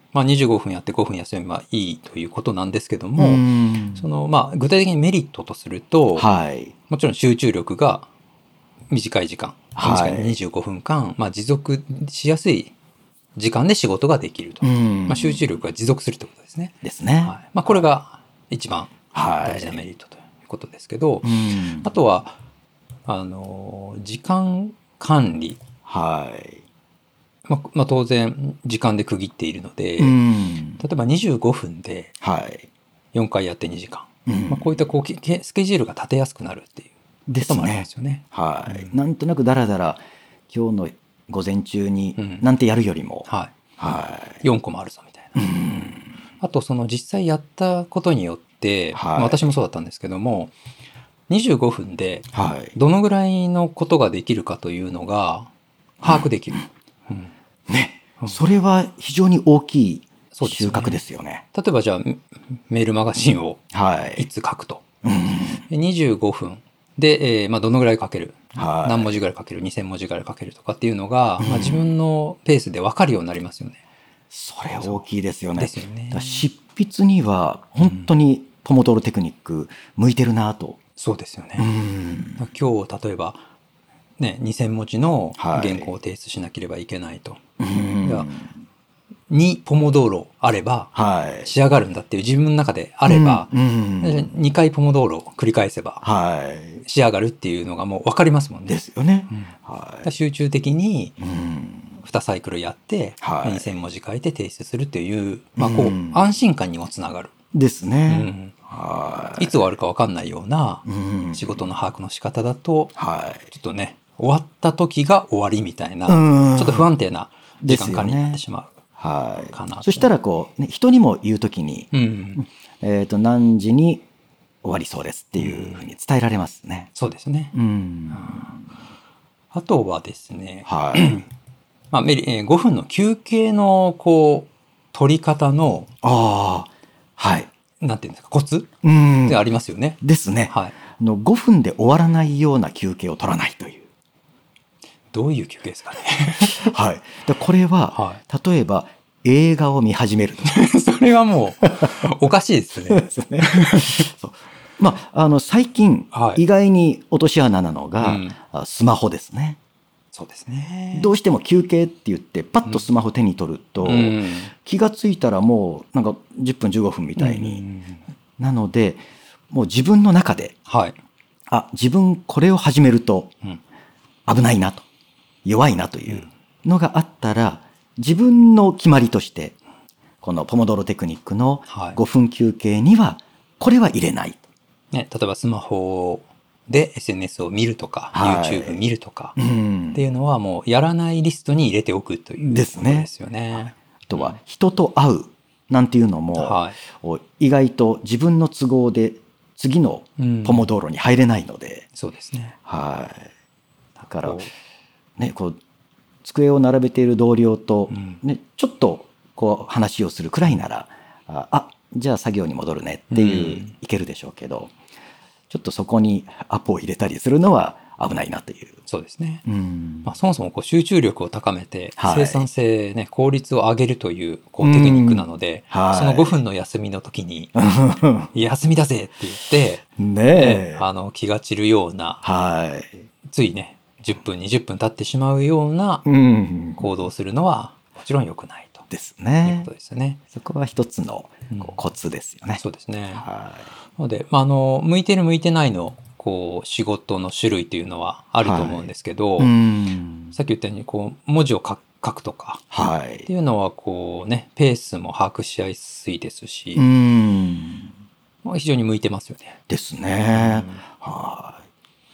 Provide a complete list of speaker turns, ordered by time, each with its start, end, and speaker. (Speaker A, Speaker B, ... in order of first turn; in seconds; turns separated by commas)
Speaker A: 0.1-3.4, Speaker B: 3.2-4.1, Speaker A: 4.0-6.3, Speaker B: 6.2-6.7, Speaker A: 6.9-8.1, Speaker A: 8.9-12.7, Speaker B: 9.8-10.3, Speaker A: 13.4-22.4, Speaker B: 14.6-15.5, Speaker B: 16.8-17.4, Speaker B: 19.1-19.9, Speaker B: 21.2-21.9, Speaker A: 23.1-25.6, Speaker B: 25.9-26.6, Speaker A: 27.5-30.2, Speaker B: 30.0-30.8, Speaker A: 30.8-32.1, Speaker B: 32.2-32.7, Speaker A: 33.1-38.9, Speaker B: 34.2-34.8, Speaker B: 37.3-43.3, Speaker A: 42.2-42.5, Speaker B: 43.8-44.4, Speaker A: 44.4-45.4, Speaker B: 45.4-46.1, Speaker A: 46.4-50.5, Speaker B: 48.9-49.5, Speaker A: 51.3-55.5, Speaker B: 52.3-52.8, Speaker A: 56.0-57.3, Speaker B: 57.7-61.4, Speaker A: 60.3-61.0, Speaker A: 61.5-63.6, Speaker B: 63.7-64.3, Speaker A: 64.2-64.8, Speaker B: 65.0-65.7, Speaker A: 65.7-73.8, Speaker B: 68.5-69.2, Speaker B: 71.4-71.9, Speaker B: 74.3-80.8, Speaker A: 75.6-76.5, Speaker A: 81.0-81.7, Speaker B: 81.6-82.5, Speaker A: 82.4-83.4, Speaker A: 84.2-87.4, Speaker B: 85.4-85.9, Speaker B: 87.6-88.5, Speaker A: 88.0-88.3, Speaker A: 89.3-96.0, Speaker B: 90.9-91.5, Speaker B: 93.1-94.4, Speaker B: 96.0-96.8, Speaker A: 96.8-98.8, Speaker B: 98.7-100.1, Speaker A: 100.0-101.2, Speaker B: 101.2-102.0, Speaker A: 102.0-107.3, Speaker B: 103.2-103.8, Speaker B: 105.6-106.2, Speaker B: 107.5-109.6, Speaker A: 108.1-108.5, Speaker A: 109.4-112.9, Speaker B: 110.8-111.7, Speaker B: 113.0-113.5, Speaker A: 113.5-118.8, Speaker B: 116.1-116.9, Speaker B: 117.6-118.4, Speaker B: 119.0-124.0, Speaker A: 119.5-120.1, Speaker A: 121.9-122.4, Speaker B: 124.6-126.9, Speaker A: 125.4-125.8, Speaker A: 126.9-127.5, Speaker B: 127.5-128.6, Speaker A: 128.1-128.5, Speaker A: 129.5-131.3, Speaker B: 130.7-131.2, Speaker A: 131.9-135.9, Speaker B: 136.0-137.5, Speaker A: 137.8-140.0, Speaker B: 138.8-139.4, Speaker B: 140.0-143.8, Speaker A: 140.5-140.8, Speaker A: 145.1-146.7, Speaker B: 146.4-150.6, Speaker A: 147.9-148.2, Speaker A: 150.5-154.1, Speaker B: 151.6-151.9, Speaker B: 152.9-159.6, Speaker A: 156.1-156.4, Speaker A: 158.0-158.3, Speaker A: 160.1-161.1, Speaker B: 160.9-167.6, Speaker A: 163.8-164.5, Speaker A: 167.2-168.0, Speaker B: 168.4-170.6, Speaker A: 170.7-170.9, Speaker B: 171.5-173.3, Speaker B: 174.3-174.8, Speaker B: 175.4-179.6, Speaker B: 180.2-184.4, Speaker A: 181.7-182.0, Speaker A: 184.9-189.3, Speaker B: 188.1-188.8, Speaker B: 189.3-190.1, Speaker A: 189.9-194.3, Speaker B: 192.4-201.9, Speaker A: 196.4-196.8, Speaker A: 200.2-200.7, Speaker A: 201.9-202.6, Speaker B: 202.7-203.3, Speaker B: 204.0-204.4, Speaker A: 204.2-204.5, Speaker B: 205.2-205.6, Speaker B: 206.2-214.7, Speaker A: 207.9-208.2, Speaker A: 213.1-213.7, Speaker B: 215.5-218.8, Speaker A: 218.9-219.4, Speaker B: 219.4-220.1, Speaker A: 220.1-227.6, Speaker B: 222.0-222.5, Speaker B: 224.6-226.4, Speaker B: 227.6-228.3, Speaker A: 228.3-232.2, Speaker B: 230.0-230.8, Speaker B: 232.2-233.0, Speaker A: 233.3-236.1, Speaker B: 236.1-237.0, Speaker A: 236.8-238.8, Speaker B: 238.9-239.7, Speaker A: 239.4-240.2, Speaker B: 240.3-242.6, Speaker A: 242.6-243.2, Speaker B: 243.2-243.7, Speaker A: 244.0-249.5, Speaker B: 248.4-250.4, Speaker A: 250.3-252.6, Speaker B: 252.7-253.3, Speaker A: 253.3-256.9, Speaker B: 256.8-257.9, Speaker A: 258.4-259.6, Speaker B: 259.7-261.6, Speaker A: 260.3-260.8